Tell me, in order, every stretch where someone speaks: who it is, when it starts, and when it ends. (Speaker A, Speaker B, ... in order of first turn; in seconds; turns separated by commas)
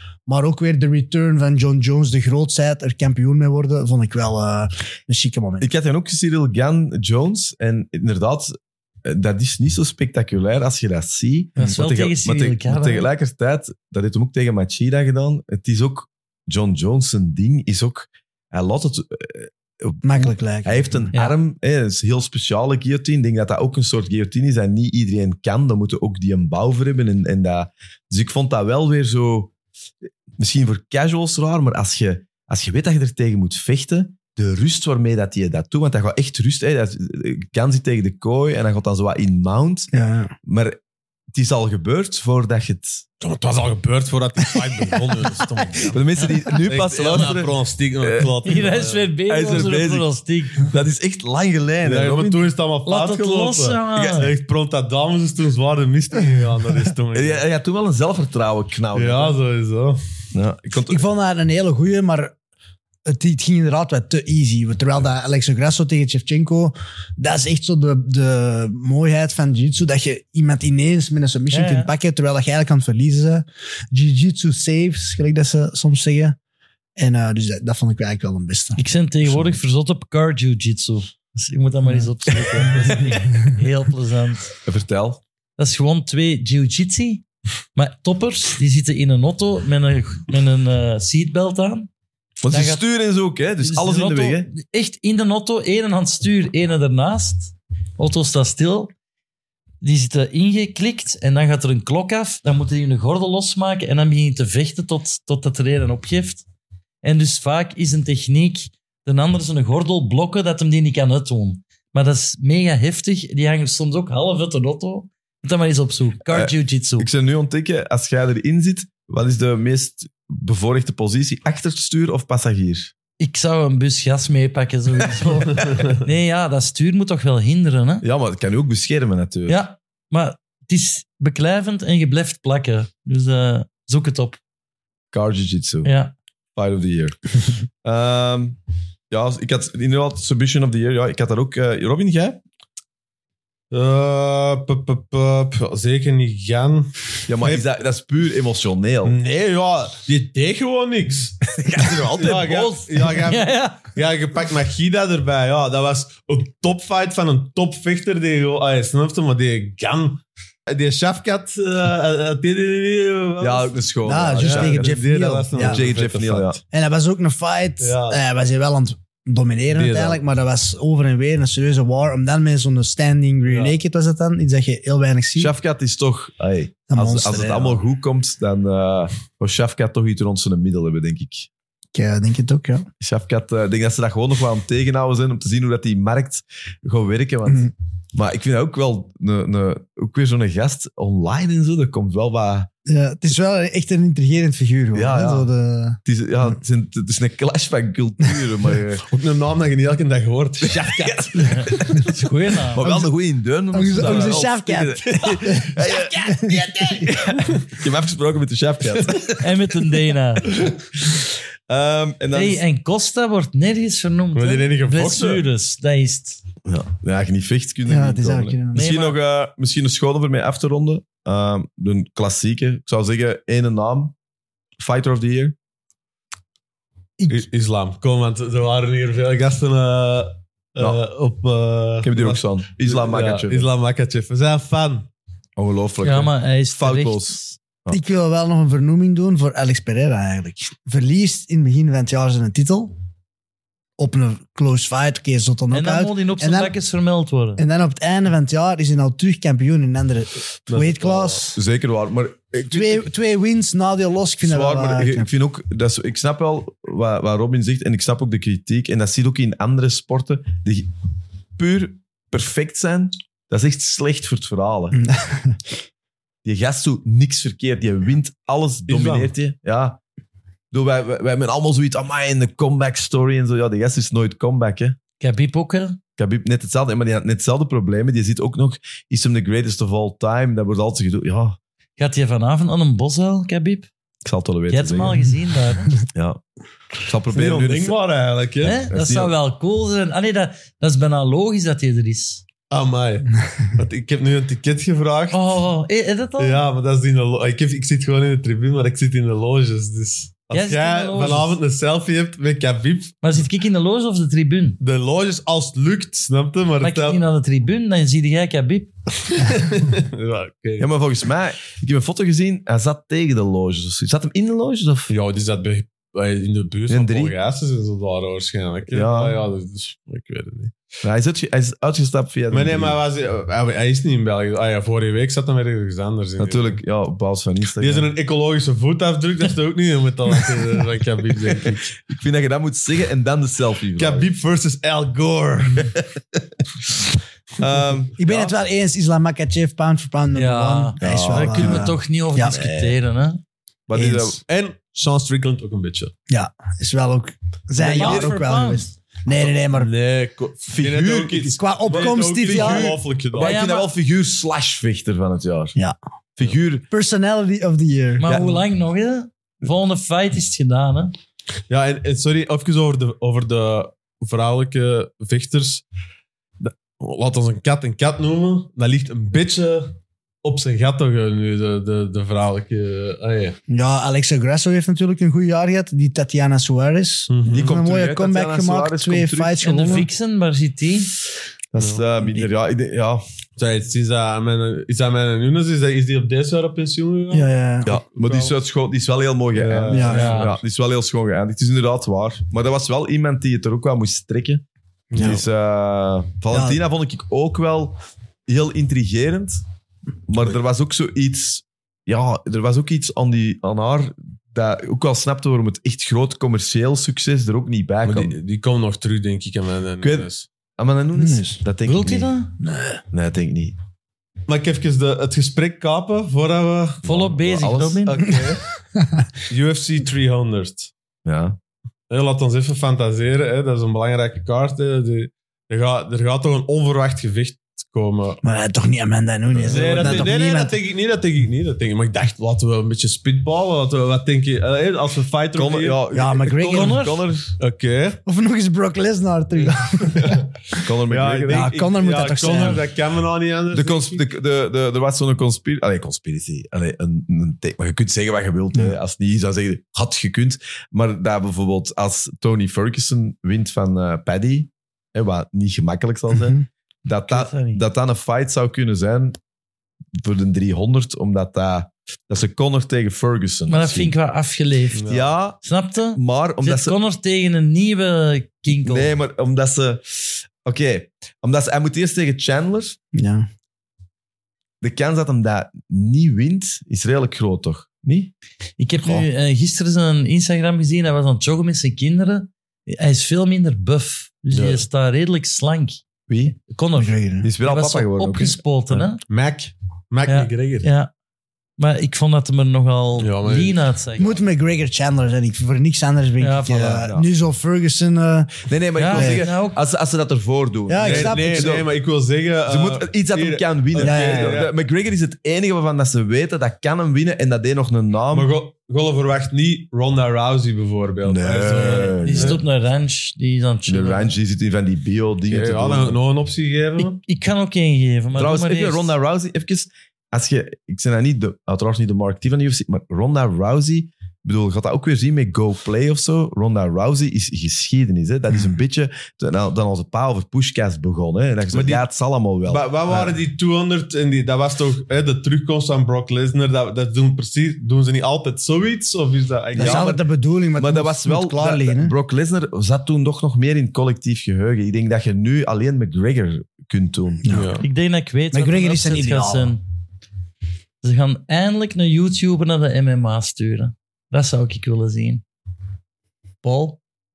Speaker A: 0.3-5.7, Speaker B: 5.6-8.5, Speaker B: 9.0-29.5, Speaker C: 11.6-13.1, Speaker A: 20.0-21.1, Speaker B: 30.4-39.9, Speaker A: 39.9-40.3, Speaker B: 40.4-40.8, Speaker B: 41.3-43.0, Speaker D: 43.2-49.1, Speaker B: 45.8-48.3, Speaker C: 48.4-50.7, Speaker B: 49.3-52.4, Speaker D: 51.8-57.4, Speaker C: 52.9-54.3, Speaker B: 57.1-59.4, Speaker D: 58.9-60.0, Speaker B: 60.3-61.0, Speaker A: 60.9-62.3, Speaker A: 63.1-76.4, Speaker C: 71.5-71.9, Speaker A: 77.0-78.8, Speaker C: 78.8-84.5, Speaker A: 82.8-83.1, Speaker B: 84.6-85.2, Speaker C: 85.6-91.9, Speaker B: 92.4-94.5, Speaker C: 92.5-92.8, Speaker C: 93.6-98.9, Speaker C: 99.8-106.4, Speaker C: 107.0-117.1, Speaker B: 116.3-122.9, Speaker C: 123.2-128.0, Speaker B: 128.0-129.6, Speaker C: 129.5-134.4, Speaker B: 135.1-135.9, Speaker C: 135.8-136.1, Speaker B: 136.6-137.2, Speaker B: 137.8-138.6, Speaker B: 139.1-142.4, Speaker D: 143.7-147.6, Speaker B: 147.3-149.2, Speaker D: 149.0-151.4, Speaker B: 151.5-152.7, Speaker D: 152.2-163.7, Speaker C: 152.3-153.9, Speaker B: 163.4-165.0, Speaker A: 164.0-165.8, Speaker D: 164.3-166.6, Speaker B: 165.5-166.6, Speaker A: 166.7-175.5, Speaker D: 167.8-168.2, Speaker D: 169.7-170.2, Speaker D: 173.4-173.8, Speaker B: 175.3-181.5, Speaker A: 176.9-177.8, Speaker A: 181.9-182.9, Speaker B: 183.0-192.7, Speaker A: 192.8-196.0, Speaker B: 194.9-195.5, Speaker B: 196.1-199.0, Speaker D: 199.1-202.0, Speaker B: 200.6-202.1, Speaker C: 201.4-202.8, Speaker B: 202.7-209.4, Speaker A: 202.8-203.1, Speaker A: 203.7-207.2, Speaker D: 204.0-204.4, Speaker D: 205.1-205.4, Speaker D: 206.8-207.6, Speaker C: 209.4-210.5, Speaker B: 211.1-212.6, Speaker C: 212.3-216.4, Speaker D: 214.3-215.4, Speaker B: 216.6-224.1, Speaker A: 217.9-218.9, Speaker C: 218.7-219.2, Speaker B: 224.8-225.6, Speaker A: 227.2-227.4, Speaker D: 227.3-235.1, Speaker B: 232.0-233.7, Speaker B: 235.6-238.0, Speaker C: 236.0-237.6, Speaker A: 237.9-242.9, Speaker A: 244.0-246.7, Speaker C: 245.7-247.6, Speaker A: 247.6-251.6, Speaker D: 250.7-251.4, Speaker B: 251.5-253.1, Speaker A: 252.7-255.3, Speaker B: 254.4-260.9, Speaker B: 261.6-265.0, Speaker A: 264.9-265.6, Speaker B: 266.4-270.0, Speaker D: 268.9-269.3, Speaker B: 270.7-275.0, Speaker C: 275.2-276.0, Speaker B: 276.2-281.6, Speaker C: 282.0-283.9, Speaker B: 284.2-285.3, Speaker C: 284.7-286.0, Speaker B: 286.1-286.4, Speaker B: 287.0-287.9, Speaker D: 287.3-288.9, Speaker C: 288.6-292.4, Speaker B: 288.9-289.3, Speaker D: 292.7-295.4, Speaker C: 295.3-296.6, Speaker D: 296.4-303.2, Speaker C: 300.5-301.5, Speaker C: 303.2-304.8, Speaker D: 304.8-307.2, Speaker C: 306.8-308.9, Speaker D: 309.3-310.9, Speaker B: 310.8-315.1, Speaker D: 315.1-320.8, Speaker B: 316.9-317.3, Speaker B: 318.9-319.4, Speaker B: 321.0-323.0, Speaker D: 322.5-326.8, Speaker B: 326.4-328.1, Speaker D: 327.8-331.9, Speaker B: 331.6-334.3, Speaker D: 333.9-336.0, Speaker B: 337.6-338.6, Speaker A: 338.2-342.6, Speaker C: 340.3-343.4, Speaker B: 341.0-343.0, Speaker B: 343.9-344.4, Speaker A: 343.9-344.4, Speaker D: 344.5-346.1, Speaker A: 346.3-349.9, Speaker C: 347.8-348.9, Speaker B: 347.8-348.4, Speaker D: 349.4-353.6, Speaker B: 350.7-355.8, Speaker A: 351.5-353.0, Speaker C: 353.4-353.9, Speaker B: 356.4-356.9, Speaker A: 356.9-358.6, Speaker C: 358.2-361.1, Speaker B: 358.2-358.6, Speaker D: 361.7-365.8, Speaker D: 366.6-373.6, Speaker A: 373.7-380.1, Speaker D: 377.3-377.8, Speaker B: 377.5-379.6, Speaker C: 379.6-381.1, Speaker B: 381.7-383.2, Speaker D: 381.8-382.0, Speaker D: 383.6-388.6, Speaker A: 387.3-388.0, Speaker B: 387.8-394.6, Speaker D: 389.5-390.5, Speaker A: 389.9-390.3, Speaker C: 390.1-390.5, Speaker D: 395.1-395.4, Speaker B: 395.2-399.6, Speaker A: 396.5-396.8, Speaker B: 400.3-408.4, Speaker D: 408.0-410.5, Speaker B: 410.0-412.3, Speaker A: 411.1-411.6, Speaker C: 411.8-412.5, Speaker A: 412.6-413.0, Speaker B: 413.1-413.8, Speaker D: 414.5-417.0, Speaker B: 417.0-418.1, Speaker C: 417.0-418.2, Speaker D: 418.1-418.6, Speaker A: 418.9-419.2, Speaker D: 419.5-420.9, Speaker B: 421.2-421.6, Speaker D: 422.1-428.4, Speaker A: 428.4-430.7, Speaker B: 429.6-430.3, Speaker D: 429.6-436.0, Speaker B: 435.5-437.5, Speaker A: 436.1-437.0, Speaker C: 436.6-437.2, Speaker D: 437.6-438.2, Speaker A: 438.2-440.8, Speaker D: 439.6-440.5, Speaker B: 440.8-441.7, Speaker D: 441.1-444.2, Speaker A: 441.5-442.9, Speaker B: 443.7-459.4, Speaker A: 456.3-456.7, Speaker C: 457.3-457.8, Speaker B: 460.2-464.1, Speaker C: 463.7-465.1, Speaker D: 464.9-465.3, Speaker B: 465.1-465.6, Speaker C: 465.6-469.1, Speaker B: 466.1-466.9, Speaker B: 468.7-473.0, Speaker A: 473.1-473.5, Speaker B: 474.8-478.3, Speaker C: 478.8-486.0, Speaker D: 484.5-484.8, Speaker B: 486.3-486.6, Speaker C: 486.6-489.2, Speaker A: 486.9-487.5, Speaker B: 487.4-489.0, Speaker D: 489.3-490.9, Speaker C: 490.2-491.1, Speaker C: 491.8-494.3, Speaker D: 493.2-493.8, Speaker A: 494.2-499.4, Speaker C: 496.4-497.0, Speaker B: 496.9-497.3, Speaker B: 498.7-501.9, Speaker C: 498.9-499.8, Speaker A: 500.9-501.7, Speaker D: 501.0-504.7, Speaker B: 502.7-508.5, Speaker A: 504.0-504.6, Speaker D: 508.3-512.6, Speaker B: 511.2-512.6, Speaker C: 511.7-514.3, Speaker B: 513.9-516.2, Speaker D: 515.5-517.2, Speaker C: 517.0-519.1, Speaker B: 518.3-533.4, Speaker D: 531.7-532.0, Speaker D: 532.6-540.2, Speaker B: 539.7-540.2, Speaker A: 539.7-542.1, Speaker B: 540.8-547.6, Speaker A: 547.4-547.7, Speaker D: 547.5-547.9, Speaker C: 547.8-549.8, Speaker A: 548.5-549.7, Speaker C: 551.0-555.4, Speaker C: 556.6-557.0